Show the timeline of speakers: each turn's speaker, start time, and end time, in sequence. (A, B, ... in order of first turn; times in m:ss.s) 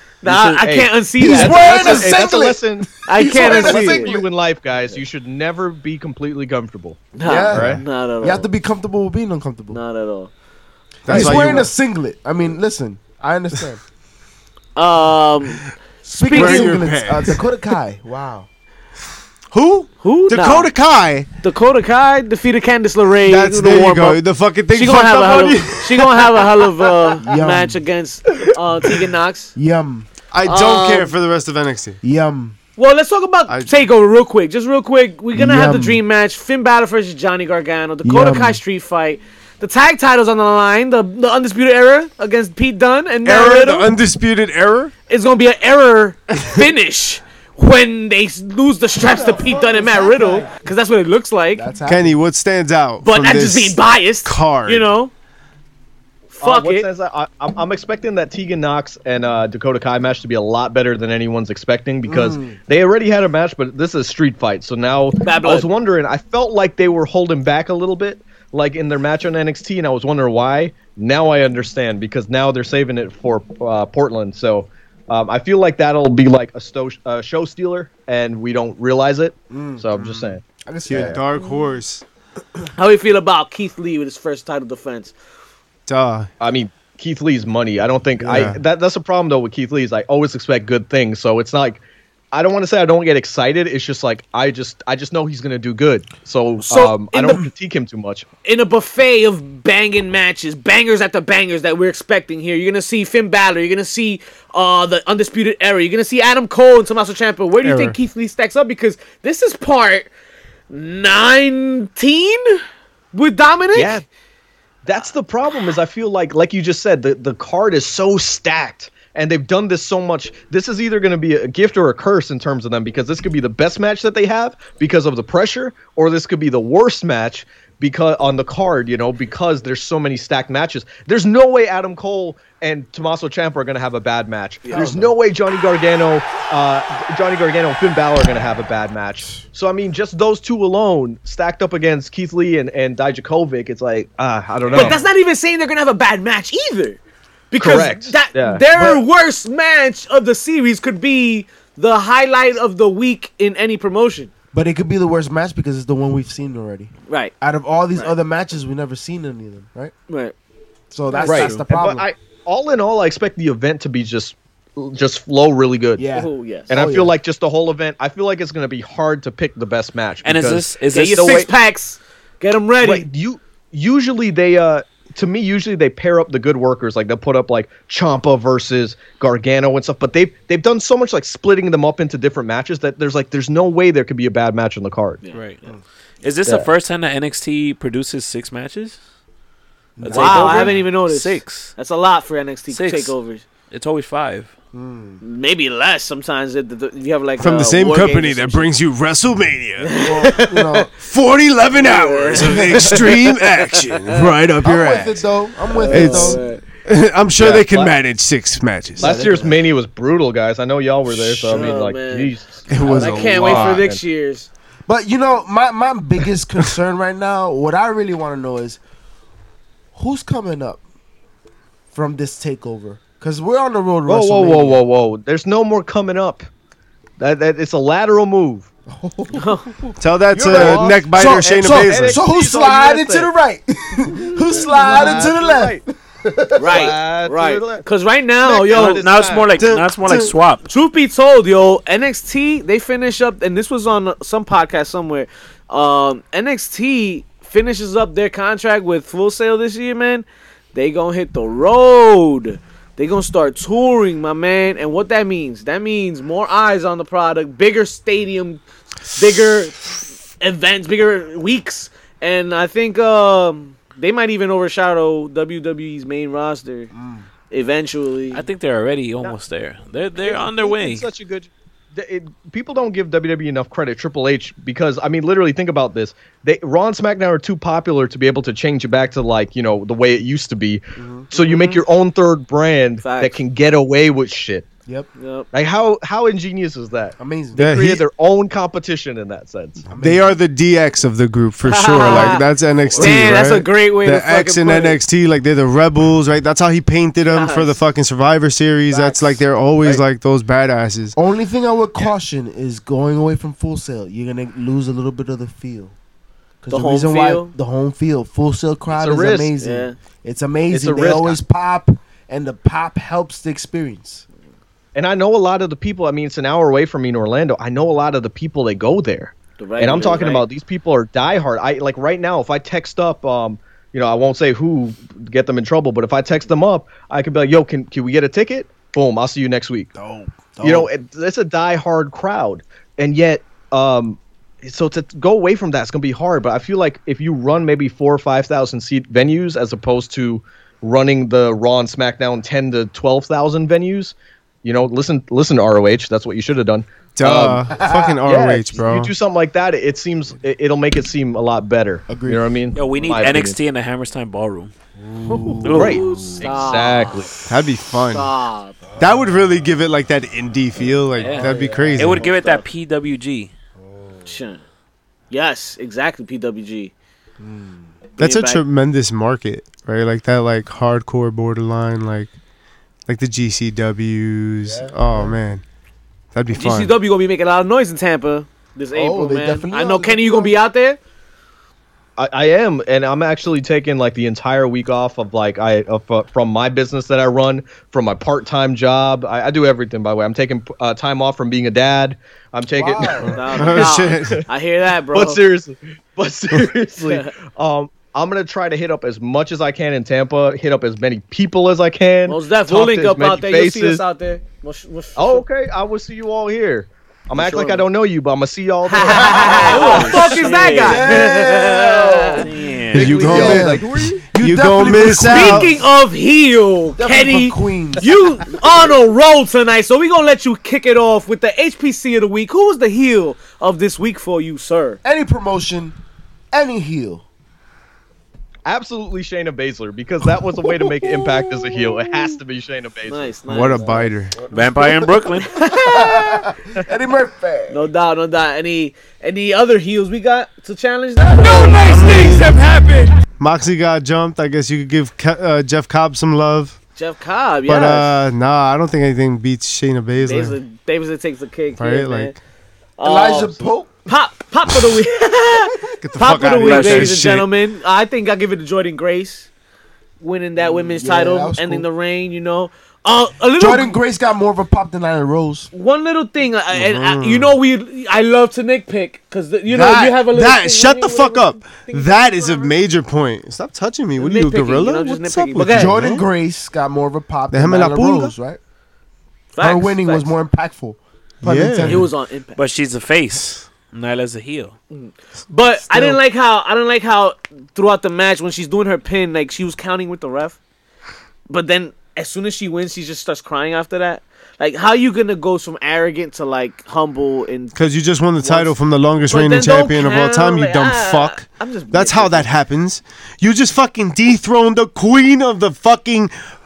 0:00.2-0:02.2 A
0:00.3-0:07.8 B
0:01.2-0:04.3 C
0:03.1-0:04.2 A
0:07.2-0:08.5 A
0:07.2-0:09.8 C
0:07.6-0:07.8 D
0:09.7-0:10.3 A
0:11.1-0:11.7 D
0:11.1-0:13.8 C
0:11.1-0:11.6 A
0:14.8-0:16.8 A
0:16.1-0:18.5 C
0:16.3-0:17.4 D
0:19.5-0:21.3 D
0:20.0-0:20.7 A
0:21.4-0:29.6 A
0:23.2-0:27.0 D
0:27.2-0:27.8 C
0:29.6-0:30.1 C
0:30.3-0:32.0 D
0:30.4-0:31.2 A
0:32.0-0:32.6 C
0:32.8-0:43.9 A
0:35.4-0:36.0 C
0:38.0-0:38.6 C
0:43.2-0:44.9 D
0:45.1-0:51.7 A
0:49.0-0:50.5 C
0:51.6-0:52.2 C
0:51.9-0:54.9 D
0:53.0-0:55.1 A
0:56.3-0:56.9 A
0:56.4-1:21.2 B
1:02.1-1:02.6 C
1:05.2-1:05.7 A
1:19.5-1:21.2 C
1:20.9-1:22.0 D
1:22.8-1:25.2 A
1:25.9-1:26.3 D
1:26.4-1:38.3 B
1:28.2-1:28.5 C
1:28.3-1:28.6 D
1:36.6-1:37.5 A
1:38.4-1:50.1 A
1:47.6-1:48.0 D
1:50.7-1:52.6 A
1:53.1-1:54.0 A
1:53.8-1:54.0 B
1:54.8-2:25.0 B
2:14.6-2:15.0 A
2:14.7-2:15.1 C
2:24.7-2:27.0 A
2:27.5-2:34.3 A
2:27.6-2:28.6 B
2:28.7-2:29.0 C
2:34.5-2:39.9 C
2:37.1-2:37.3 A
2:40.1-2:40.4 A
2:40.9-2:42.0 C
2:41.1-2:41.5 A
2:41.2-2:41.6 E
2:41.2-2:46.0 B
2:46.0-2:47.1 C
2:46.1-2:46.7 A
2:46.7-2:51.5 B
2:50.2-2:51.5 E
2:50.9-2:53.1 A
2:52.8-3:05.2 B
3:05.3-3:05.7 E
3:06.2-3:09.0 E
3:10.0-3:10.8 C
3:10.0-3:11.7 E
3:10.1-3:13.4 A
3:12.7-3:13.1 E
3:13.7-3:14.5 E
3:14.7-3:15.2 C
3:15.2-3:18.7 A
3:17.4-3:19.9 D
3:19.8-3:20.9 A
3:20.0-3:20.9 C
3:21.0-3:25.2 D
3:21.7-3:24.2 A
3:22.4-3:23.0 C
3:24.6-3:26.4 C
3:25.7-3:26.6 A
3:25.9-3:29.2 D
3:27.4-3:28.0 B
3:29.0-3:29.6 C
3:29.0-3:34.0 B
3:31.1-3:31.5 D
3:31.5-3:32.3 A
3:32.7-3:33.8 D
3:32.8-3:33.1 C
3:32.8-3:34.5 A
3:34.9-3:38.8 C
3:39.9-3:40.8 C
3:41.9-3:44.8 C
3:44.1-3:46.5 B
3:47.2-3:48.7 B
3:48.9-3:56.8 C
3:49.3-3:49.7 A
3:50.0-3:52.2 D
3:50.4-3:53.3 B
3:54.4-3:55.8 B
3:54.6-3:55.3 A
3:56.6-3:59.0 A
3:56.6-3:57.8 B
3:58.4-3:59.5 B
3:58.7-4:00.6 E
3:59.6-3:59.9 D
4:00.6-4:26.9 A
4:26.9-4:27.3 C
4:27.5-4:28.5 A
4:28.3-4:31.1 E
4:30.2-4:44.7 B
4:41.0-4:41.3 C
4:41.3-4:41.8 A
4:43.0-4:43.4 A
4:45.2-4:45.5 A
4:45.5-4:49.8 B
4:47.2-4:47.6 C
4:47.6-4:48.0 D
4:49.8-4:50.4 C
4:50.0-5:01.2 D
4:51.6-4:55.0 A
4:57.2-4:57.8 A
4:58.9-4:59.4 A
5:01.2-5:06.0 C
5:06.6-5:14.2 C
5:06.7-5:07.5 A
5:08.9-5:09.5 B
5:09.6-5:10.0 A
5:10.7-5:11.4 B
5:15.0-5:29.9 B
5:19.6-5:20.5 A
5:30.0-5:30.9 C
5:30.6-5:53.6 B
5:47.2-5:49.1 D
5:47.7-5:48.2 C
5:52.1-5:52.4 C
5:52.7-5:54.7 E
5:55.1-5:56.6 C
5:55.3-5:57.3 A
5:55.4-5:56.0 D
5:55.6-5:56.3 E
5:55.7-5:57.3 B
5:57.4-5:58.3 D
5:58.1-5:58.8 A
5:59.0-6:02.3 D
5:59.0-5:59.4 C
6:01.2-6:03.5 E
6:01.3-6:02.6 A
6:04.3-6:04.6 A
6:05.3-6:06.9 A
6:07.4-6:07.8 C
6:08.2-6:12.3 D
6:08.2-6:08.6 A
6:13.1-6:15.6 D
6:14.7-6:15.4 C
6:16.3-6:16.9 D
6:16.5-6:21.0 A
6:18.9-6:20.6 C
6:22.2-6:34.4 B
6:32.8-6:33.4 C
6:33.2-6:34.4 D
6:33.3-6:35.4 A
6:35.1-6:44.0 B
6:37.0-6:37.3 A
6:42.3-6:45.4 A
6:45.2-6:50.4 B
6:47.3-6:47.9 A
6:48.9-6:52.5 A
6:49.2-6:49.6 C
6:49.5-6:51.2 E
6:50.8-6:55.8 C
6:52.4-6:53.4 E
6:52.9-6:54.2 B
6:52.9-6:53.8 D
6:54.4-6:55.8 D
6:55.2-7:05.0 A
6:57.0-6:58.2 C
7:05.0-7:06.0 C
7:06.5-7:07.2 C
7:08.7-7:13.3 B
7:11.0-7:12.3 C
7:13.1-7:14.1 A
7:13.5-7:14.4 D
7:14.3-7:17.9 C
7:14.5-7:15.6 E
7:15.5-7:16.5 A
7:17.7-7:23.1 A
7:21.9-7:22.5 D
7:23.4-7:26.8 D
7:27.0-7:28.1 A
7:27.7-7:30.6 D
7:30.2-7:32.4 A
7:31.8-7:32.3 D
7:33.0-7:39.5 A
7:33.0-7:34.0 C
7:36.0-7:37.5 D
7:36.6-7:37.2 E
7:40.2-7:44.0 A
7:40.6-7:41.8 C
7:43.6-7:45.7 C
7:45.7-7:52.7 A
7:46.7-7:47.6 D
7:49.7-7:50.2 C
7:50.3-7:56.3 D
7:54.2-7:56.0 A
7:55.7-7:58.6 C
7:57.5-7:58.4 D
7:59.5-8:00.3 A
7:59.6-8:02.1 C
8:01.4-8:02.1 D
8:01.8-8:02.6 A
8:02.6-8:04.7 E
8:04.9-8:10.6 A
8:05.9-8:06.2 C
8:11.5-8:17.8 A
8:17.8-8:26.3 D
8:18.4-8:18.7 A
8:19.3-8:22.5 A